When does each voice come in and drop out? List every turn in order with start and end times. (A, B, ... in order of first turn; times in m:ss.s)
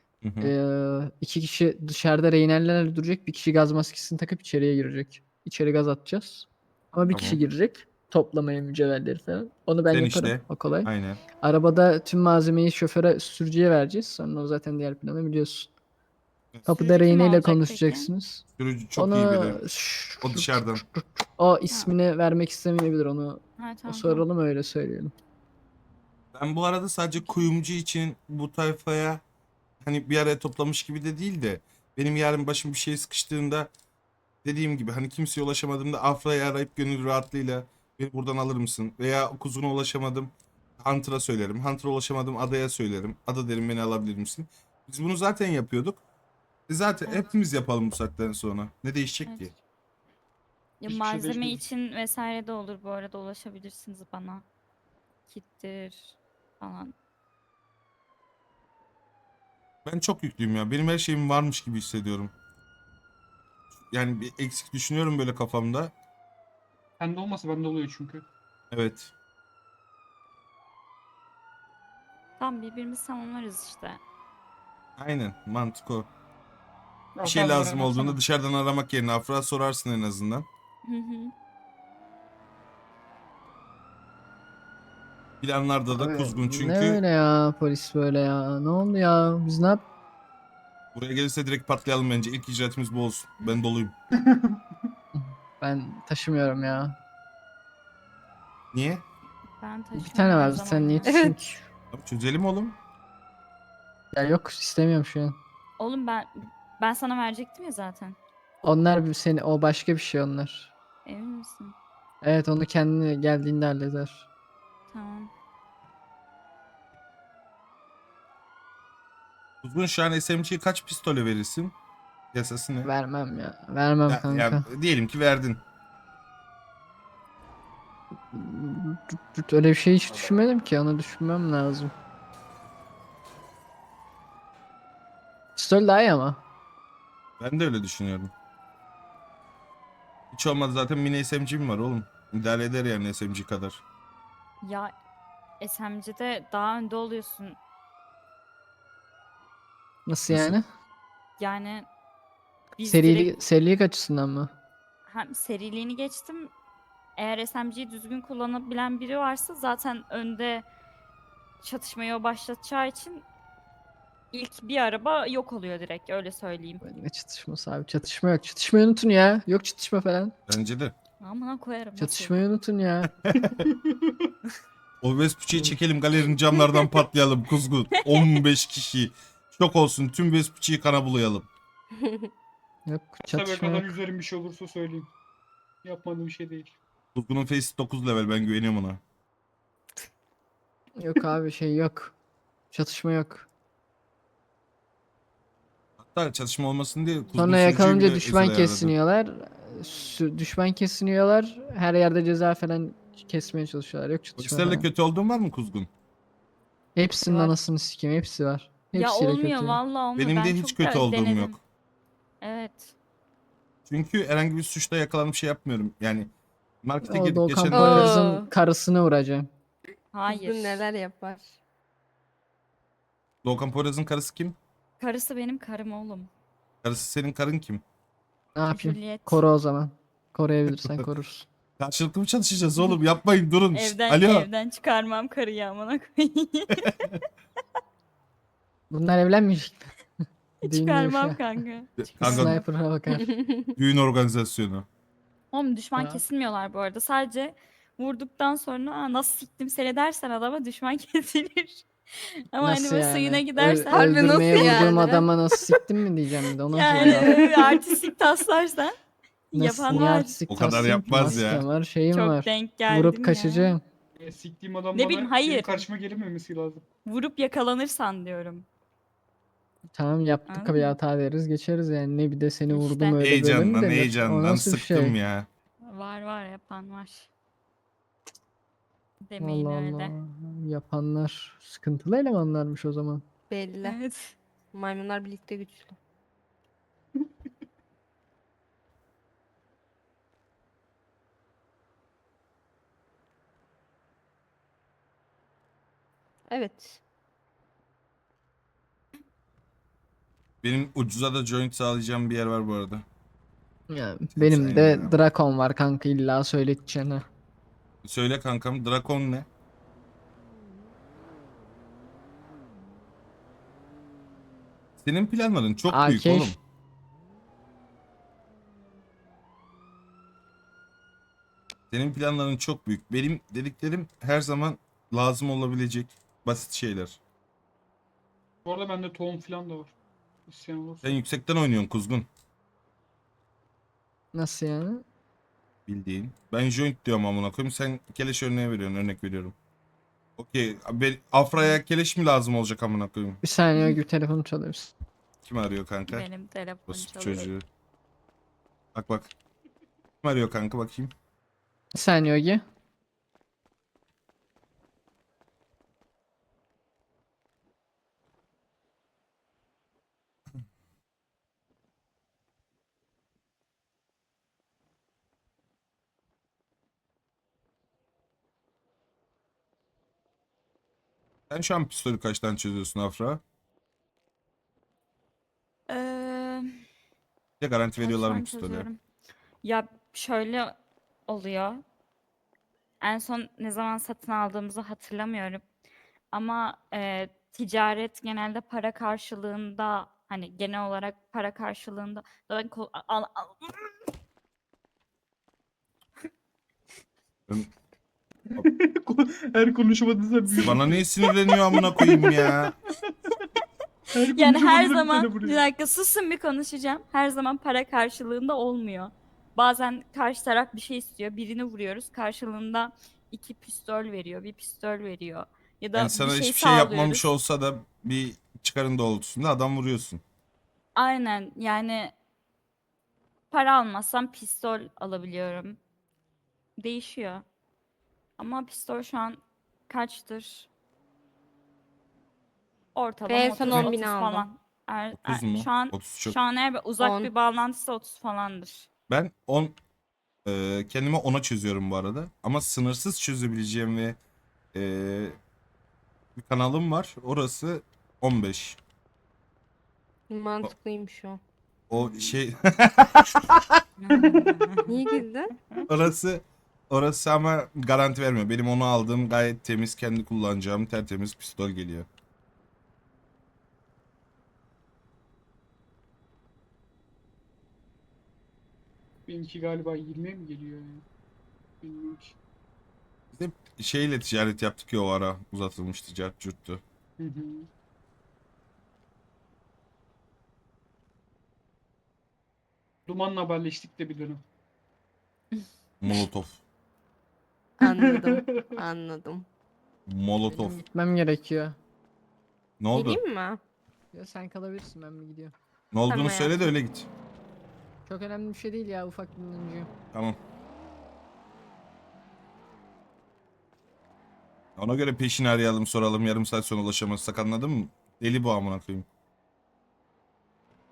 0:00.2-0:00.5 A
0:00.4-0:15.7 B
0:07.1-0:07.4 A
0:09.9-0:11.2 A
0:16.5-0:16.8 A
0:16.7-0:18.4 B
0:16.8-0:18.1 C
0:18.6-0:19.6 A
0:19.0-0:25.1 B
0:20.2-0:20.8 A
0:23.6-0:24.3 C
0:26.3-0:29.2 A
0:27.2-0:27.4 C
0:29.8-0:33.7 A
0:34.4-0:46.0 A
0:46.7-0:49.5 A
0:49.3-0:49.6 C
0:50.8-0:54.4 C
0:50.9-0:51.6 D
0:55.3-0:56.9 C
0:59.8-1:02.3 A
1:03.9-1:05.9 A
1:07.0-1:08.3 D
1:08.7-1:09.1 A
1:12.4-1:14.0 C
1:15.0-1:16.1 A
1:17.2-1:18.2 D
1:17.2-1:20.5 A
1:20.8-1:21.3 C
1:25.4-1:27.0 A
1:25.9-1:29.8 B
1:31.0-1:33.9 A
1:34.2-1:34.6 D
1:35.2-1:37.0 B
1:38.7-1:39.0 A
1:39.6-1:41.1 C
1:40.0-1:41.6 B
1:41.1-1:41.6 E
1:41.9-1:42.8 A
1:44.1-1:45.4 B
1:45.8-1:48.2 C
1:48.6-1:50.7 B
1:51.1-1:51.8 C
1:52.2-1:54.3 B
1:54.9-1:55.3 C
1:59.6-2:01.7 A
2:02.3-2:02.9 A
2:02.8-2:04.7 B
2:04.1-2:05.6 A
2:08.3-2:11.9 B
2:15.6-2:16.4 B
2:17.4-2:18.3 A
2:20.3-2:23.8 A
2:24.6-2:24.9 C
2:25.6-2:27.6 C
2:30.1-2:30.7 B
2:30.3-2:30.6 A
2:31.4-2:31.9 C
2:32.8-2:33.3 C
2:32.8-2:34.5 B
2:35.1-2:36.5 C
2:37.2-2:40.6 C
2:41.6-2:43.2 C
2:44.3-2:46.8 C
2:46.8-2:50.4 B
2:50.5-2:51.0 A
2:51.2-2:52.4 C
2:52.0-2:53.2 B
2:53.3-2:53.7 A
2:53.6-2:54.3 D
2:55.0-3:01.5 A
2:58.1-2:58.4 C
3:01.9-3:02.3 E
3:02.9-3:04.0 B
3:03.2-3:05.1 D
3:05.8-3:06.8 D
3:07.2-3:09.0 A
3:11.0-3:12.2 B
3:12.7-3:13.5 B
3:16.0-3:18.9 A
3:17.3-3:24.9 B
3:24.4-3:25.9 A
3:27.0-3:29.8 B
3:27.2-3:27.6 C
3:28.9-3:31.6 C
3:30.2-3:31.6 A
3:32.4-3:33.0 C
3:33.9-3:36.3 A
3:36.8-3:38.2 A
3:37.0-3:39.5 B
3:37.7-3:38.5 E
3:40.1-3:40.8 C
3:40.3-3:41.6 E
3:43.4-3:44.6 A
3:45.0-3:46.3 C
3:46.8-3:47.8 A
3:48.6-3:51.5 B
3:48.7-3:49.4 C
3:51.8-3:54.5 A
3:53.7-3:56.9 C
3:56.8-3:57.2 A
3:58.9-3:59.9 B
4:00.6-4:02.6 C
4:00.6-4:01.4 B
4:02.0-4:02.6 A
4:02.2-4:03.3 B
4:03.1-4:03.8 E
4:03.8-4:04.9 A
4:05.5-4:15.3 C
4:06.0-4:06.2 B
4:12.6-4:17.6 B
4:13.9-4:15.3 E
4:16.7-4:19.0 C
4:16.9-4:17.8 D
4:19.5-4:21.4 C
4:19.5-4:23.8 B
4:20.5-4:21.7 A
4:22.1-4:23.8 C
4:24.2-4:26.8 D
4:24.9-4:25.8 C
4:27.0-4:28.7 C
4:29.9-4:35.2 B
4:30.5-4:31.0 C
4:32.7-4:33.2 C
4:33.2-4:35.5 A
4:35.8-4:37.3 C
4:39.3-4:40.1 C
4:39.4-4:43.2 B
4:43.5-4:44.0 E
4:43.8-4:44.4 C
4:44.7-4:46.0 E
4:56.5-4:57.0 E
5:00.6-5:03.0 A
5:03.9-5:07.3 B
5:04.3-5:05.2 A
5:08.0-5:09.5 A
5:15.0-5:16.6 A
5:15.9-5:16.6 B
5:21.9-5:27.2 A
5:28.6-5:29.9 D
5:30.5-5:31.2 D
5:31.0-5:32.3 A
5:34.3-5:35.0 B
5:35.9-5:39.6 A
5:40.4-5:43.4 A
5:43.4-5:44.9 B
5:45.4-5:46.3 A
5:46.1-5:47.5 C
5:46.9-5:47.6 A
5:49.0-5:49.3 A
5:50.2-5:51.1 A
5:51.9-5:52.6 B
6:11.5-6:13.4 A
6:15.9-6:16.8 C
6:17.6-6:18.9 A
6:18.0-6:19.0 C
6:19.6-6:20.8 C
6:21.3-6:21.8 C
6:23.0-6:25.6 C
6:26.3-6:33.9 C
6:38.5-6:43.3 D
6:40.6-6:42.7 A
6:44.1-6:45.6 D
6:44.3-6:57.2 C
6:56.0-7:00.2 A
7:01.0-7:02.1 C
7:03.5-7:05.8 C
7:06.8-7:07.4 C
7:08.4-7:10.7 C
7:13.0-7:18.9 C
7:13.3-7:14.5 E
7:13.4-7:13.9 D
7:15.1-7:16.4 A
7:17.0-7:17.3 E
7:19.1-7:19.8 A
7:20.5-7:24.2 A
7:24.7-7:25.4 A
7:26.4-7:28.8 A
7:30.3-7:31.4 E
7:31.9-7:33.8 A
7:34.0-7:34.9 C
7:34.1-7:34.9 D
7:34.9-7:35.5 E
7:35.9-7:42.1 A
7:49.3-7:51.0 D
7:51.8-7:52.4 D
7:53.3-7:56.8 A
7:57.2-7:57.7 D
8:03.1-8:04.4 D
8:06.0-8:06.6 A
8:07.8-8:08.8 D
8:07.8-8:09.5 E
8:10.1-8:10.8 A
8:10.5-8:11.8 B
8:12.8-8:13.2 A
8:12.9-8:13.6 E
8:14.1-8:15.5 B
8:15.9-8:17.1 A
8:16.1-8:16.7 E
8:18.1-8:19.9 B
8:20.1-8:20.4 A
8:24.8-8:29.1 A